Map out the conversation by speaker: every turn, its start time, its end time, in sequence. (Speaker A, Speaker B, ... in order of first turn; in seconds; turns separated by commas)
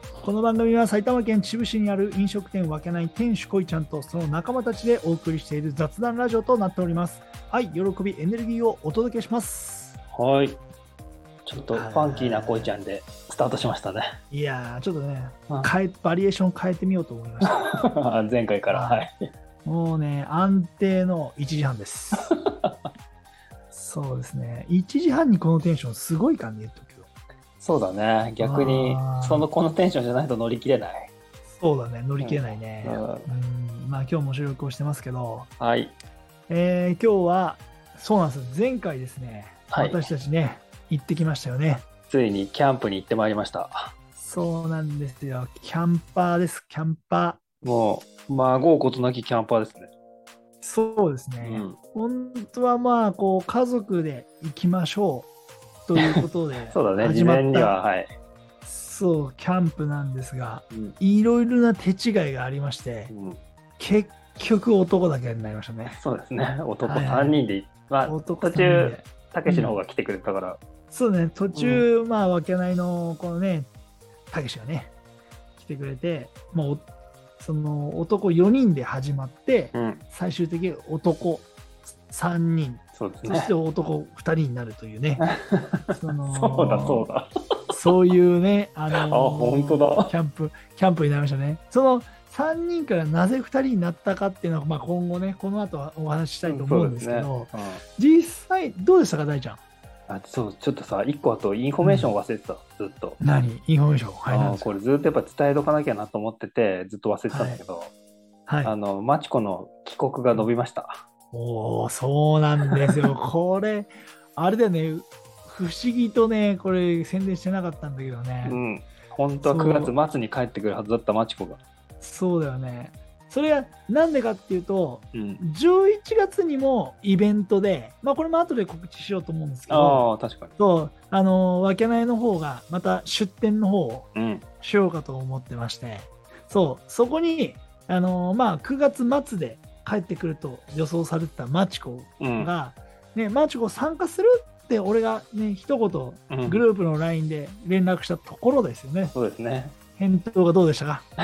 Speaker A: 0.2-10.0, Speaker B: 10.1-10.6, Speaker B: 11.5-14.1, Speaker A: 11.7-12.7, Speaker A: 14.3-17.7, Speaker B: 17.4-19.2, Speaker A: 18.7-19.1, Speaker A: 19.6-22.3, Speaker B: 22.3-22.9, Speaker A: 23.7-27.1, Speaker B: 27.6-31.1, Speaker A: 28.4-29.5, Speaker A: 31.5-35.5, Speaker B: 32.2-33.3, Speaker B: 35.6-36.0, Speaker A: 36.5-41.8, Speaker B: 39.7-40.1, Speaker B: 42.1-43.9, Speaker A: 44.2-47.4, Speaker B: 47.6-49.9, Speaker A: 50.6-55.3, Speaker B: 51.4-51.8, Speaker A: 55.9-57.8, Speaker B: 56.0-58.1, Speaker A: 58.6-63.1, Speaker B: 60.7-61.0, Speaker B: 63.1-63.4, Speaker A: 63.8-66.0, Speaker B: 65.9-70.6, Speaker A: 66.8-67.4, Speaker A: 68.0-69.8, Speaker A: 70.9-73.7, Speaker B: 71.5-71.9, Speaker A: 74.3-74.9, Speaker A: 75.6-76.9, Speaker A: 77.4-85.3, Speaker B: 79.7-80.0, Speaker B: 83.0-83.5, Speaker B: 85.2-87.8, Speaker A: 85.9-87.1, Speaker A: 87.7-99.6, Speaker B: 88.9-90.1, Speaker B: 96.5-97.8, Speaker B: 100.1-103.2, Speaker A: 101.8-102.1, Speaker A: 103.2-104.7, Speaker B: 104.3-107.9, Speaker A: 107.3-107.6, Speaker A: 108.5-108.7, Speaker B: 108.6-111.0, Speaker A: 111.3-118.6, Speaker B: 118.4-121.6, Speaker A: 119.4-120.0, Speaker A: 122.0-134.1, Speaker B: 125.1-125.4, Speaker B: 129.7-130.6, Speaker B: 134.2-134.5, Speaker A: 134.6-149.2, Speaker B: 142.2-142.5, Speaker B: 146.3-146.6, Speaker B: 149.1-149.8, Speaker A: 150.0-151.1